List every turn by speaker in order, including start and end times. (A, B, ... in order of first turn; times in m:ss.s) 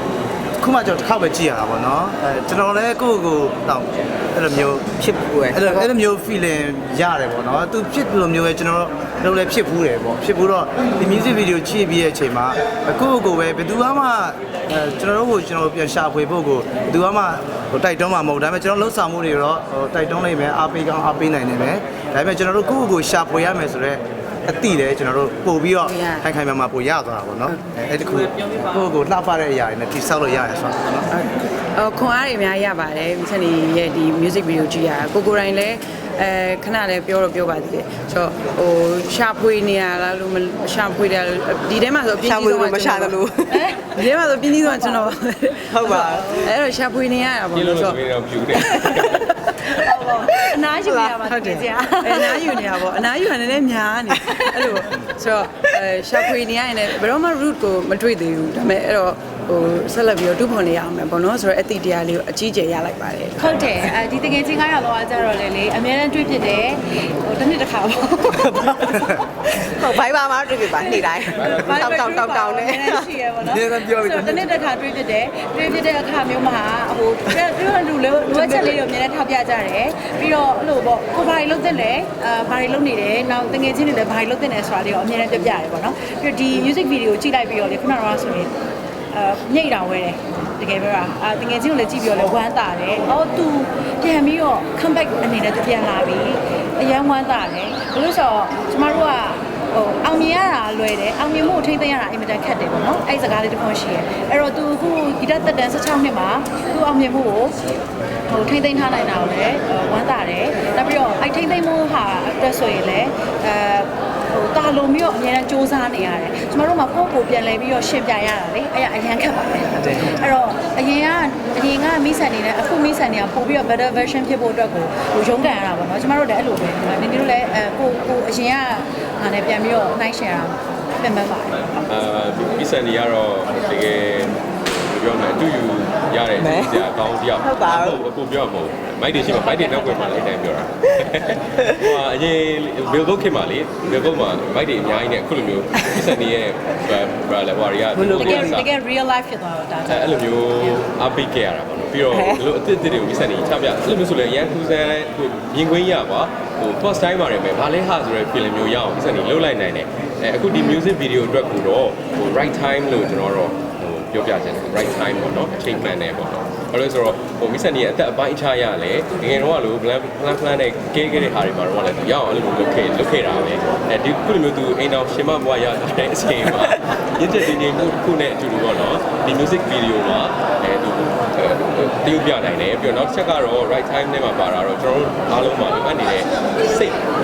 0:00.6-0:04.9 A
0:05.0-0:05.9 B
0:05.5-0:31.1 A
0:25.8-0:26.3 C
0:31.1-0:43.2 C
0:42.2-0:43.7 B
0:43.5-0:45.1 D
0:43.9-0:45.8 C
0:45.7-0:46.3 B
0:45.8-0:46.6 D
0:46.4-0:48.0 C
0:47.5-0:49.2 E
0:48.6-0:51.2 B
0:49.0-0:52.8 D
0:51.3-1:03.7 C
0:52.1-0:52.5 B
0:54.3-0:54.7 B
1:03.4-1:09.1 D
1:08.4-1:13.2 B
1:10.7-1:28.5 D
1:13.5-1:14.5 A
1:29.1-1:47.6 D
1:48.3-2:11.8 D
2:11.8-2:28.7 E
2:16.4-2:16.8 B
2:17.4-2:18.0 B
2:19.4-2:20.3 D
2:21.3-2:21.8 B
2:28.0-2:28.6 B
2:28.1-2:30.8 D
2:29.9-3:07.0 E
2:32.1-2:32.4 B